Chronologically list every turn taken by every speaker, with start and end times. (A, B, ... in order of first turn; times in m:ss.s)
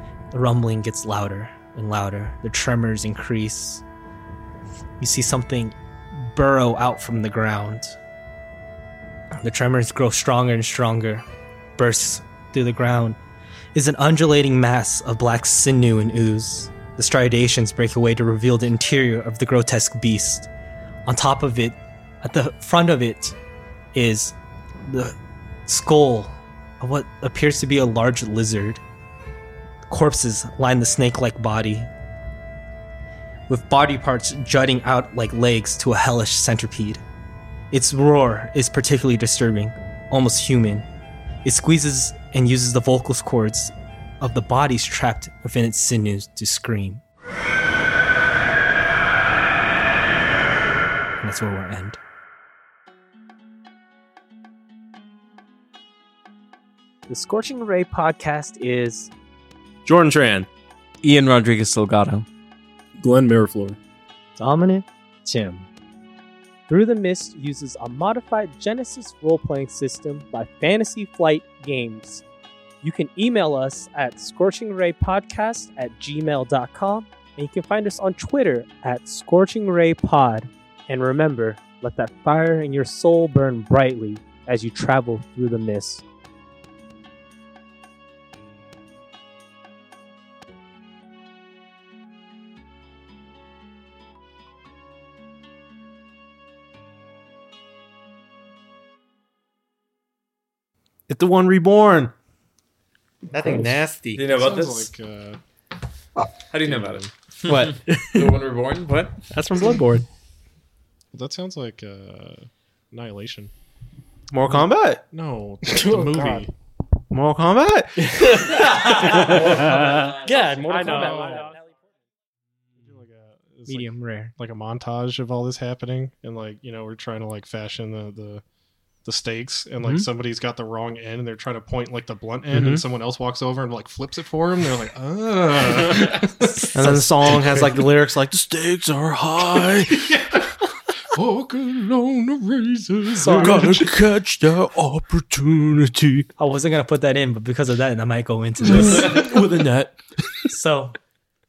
0:00.3-0:03.8 A
0:05.0-0:08.0 A
0:09.4-0:11.3 A
0:11.8-0:13.2 A
0:13.8-0:20.5 A
0:21.1-0:23.4 A
0:23.9-0:24.4 A
0:24.9-0:25.2 A
0:25.7-0:28.8 A
0:29.9-0:31.9 A
0:33.5-0:37.0 A
0:37.7-0:40.9 A
0:41.4-0:47.0 A
0:51.2-0:52.0 A
0:57.1-0:59.1 A
0:59.8-1:00.5 B
1:01.0-1:02.3 C
1:03.0-1:03.8 D
1:04.4-1:05.7 A
1:06.7-1:12.2 A
1:12.8-1:26.0 A
1:41.1-1:42.1 B
1:43.3-1:44.2 B
1:43.5-1:44.9 C
1:44.3-1:45.4 E
1:46.5-1:49.2 C
1:46.7-1:47.1 E
1:47.4-1:48.4 B
1:49.3-1:50.1 B
1:51.1-1:53.5 E
1:54.3-1:55.0 B
1:54.5-1:56.5 E
1:55.6-1:56.5 D
1:57.1-2:00.1 B
1:58.0-2:01.6 D
2:00.7-2:01.5 E
2:02.8-2:08.4 E
2:03.7-2:04.3 A
2:09.0-2:17.6 E
2:12.5-2:12.8 B
2:16.7-2:20.2 B
2:20.0-2:20.5 E
2:21.1-2:23.9 E
2:23.2-2:23.8 A
2:23.2-2:26.3 B
2:26.4-2:29.2 A
2:28.6-2:30.5 B
2:30.5-2:31.0 A